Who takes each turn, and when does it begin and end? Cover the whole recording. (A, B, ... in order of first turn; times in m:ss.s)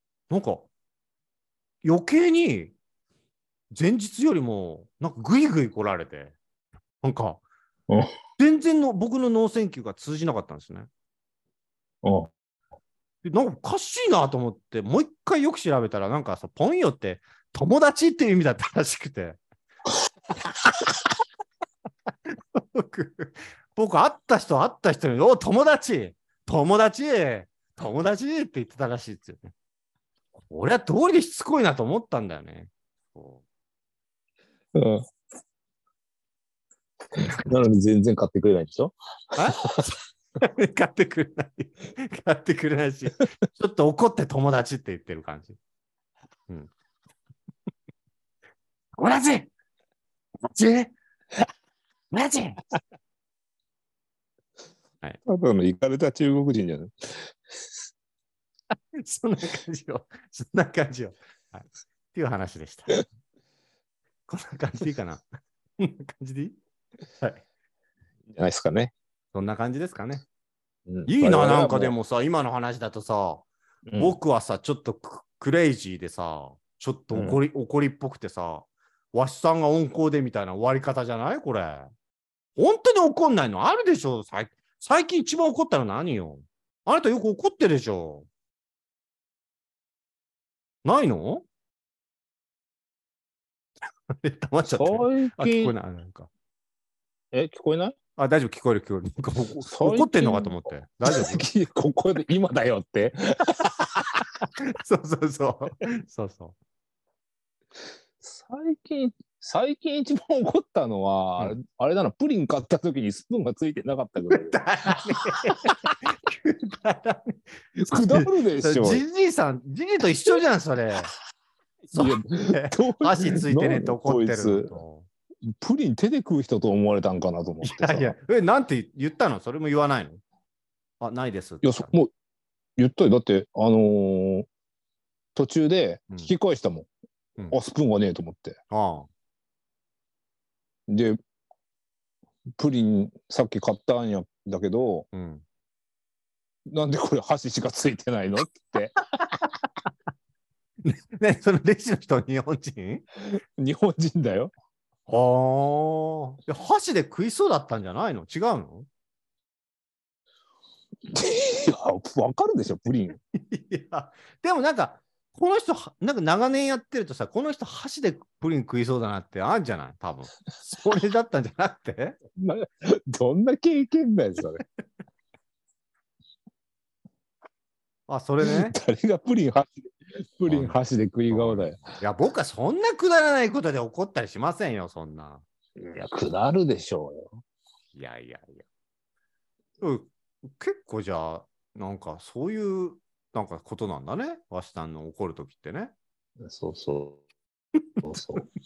0:00.3-0:00.7 A
0:01.8-0:02.7 A
0:03.7-0:06.4 A
0:07.0-0:07.4 A
0:08.4-0:10.9 A
0:12.0-0:12.3 B
0:13.2-0:19.4 A
0:22.6-0:29.5 A
0:30.4-0:33.4 A
0:34.8-0:35.0 B
0:37.2-0:39.0 B
0:39.4-0:45.6 A
0:49.0-0:49.5 A
0:50.5-0:50.9 A
0:52.1-0:52.6 A
0:55.3-0:57.3 B
0:58.9-1:03.0 A
1:04.3-1:05.2 A
1:05.8-1:06.6 A
1:08.3-1:08.9 B
1:09.3-1:10.2 A
1:10.9-1:12.0 B
1:11.1-1:21.9 A
1:13.9-1:14.2 B
1:17.1-1:17.4 B
1:22.6-1:28.3 A
1:30.8-1:31.4 A
1:34.1-1:36.3 A
1:34.7-1:35.7 B
1:37.3-1:38.0 B
1:38.2-1:41.5 A
1:39.6-1:44.2 B
1:44.6-1:46.6 A
1:48.2-1:54.6 B
1:54.3-2:01.1 A
1:57.8-1:59.0 B
2:01.9-2:05.1 A
2:01.9-2:04.7 B
2:05.5-2:08.1 B
2:07.6-2:10.2 A
2:11.0-2:11.9 A
2:11.6-2:12.1 B
2:12.8-2:14.5 B
2:15.4-2:16.9 B
2:17.5-2:18.6 B
2:18.7-2:19.1 A
2:20.9-2:21.2 B
2:22.6-2:25.1 B
2:25.1-2:25.4 A
2:26.7-2:28.9 B
2:29.2-2:29.4 A
2:30.8-2:33.0 A
2:33.2-2:34.5 B
2:35.1-2:38.9 A
2:41.1-2:43.2 B
2:43.3-2:52.2 A
2:52.4-2:54.6 B
2:58.1-2:58.8 A
2:58.4-3:01.9 B
3:00.5-3:00.8 A
3:01.3-3:05.4 A
3:05.8-3:07.4 B
3:08.0-3:08.6 A
3:09.8-3:15.9 A
3:16.4-3:17.2 B
3:18.0-3:18.4 A
3:18.0-3:18.4 B